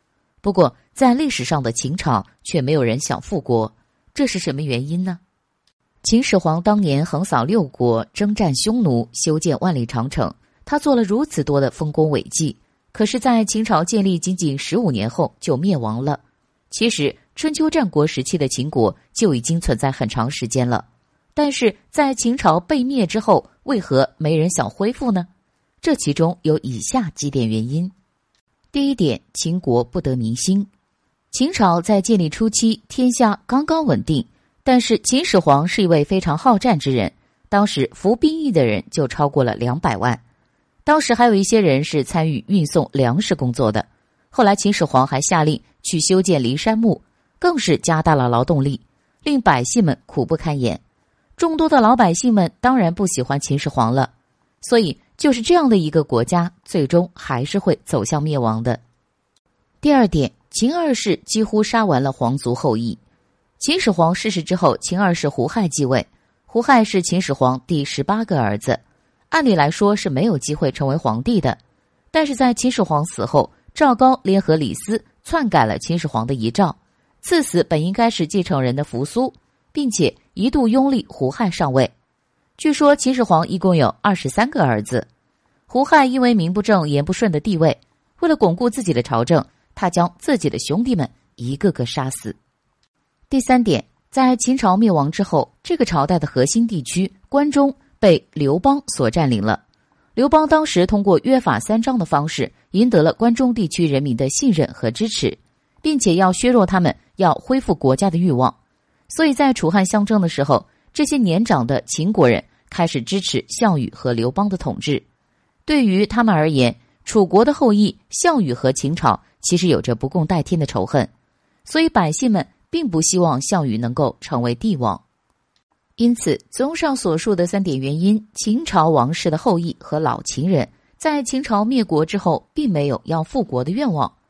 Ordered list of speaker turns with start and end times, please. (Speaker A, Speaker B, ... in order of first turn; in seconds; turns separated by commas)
Speaker A: 0.4-5.2, Speaker A: 6.0-25.3, Speaker A: 25.8-27.9, Speaker A: 28.7-30.7, Speaker A: 31.3-40.2, Speaker A: 40.8-50.8, Speaker A: 51.4-54.1, Speaker A: 54.6-58.8, Speaker A: 59.8-63.0, Speaker A: 63.6-71.6, Speaker A: 72.1-81.9, Speaker A: 82.6-85.1, Speaker A: 85.7-92.4, Speaker A: 93.3-99.6, Speaker A: 100.2-108.5, Speaker A: 109.1-115.0, Speaker A: 115.7-121.1, Speaker A: 121.6-125.0, Speaker A: 126.0-134.1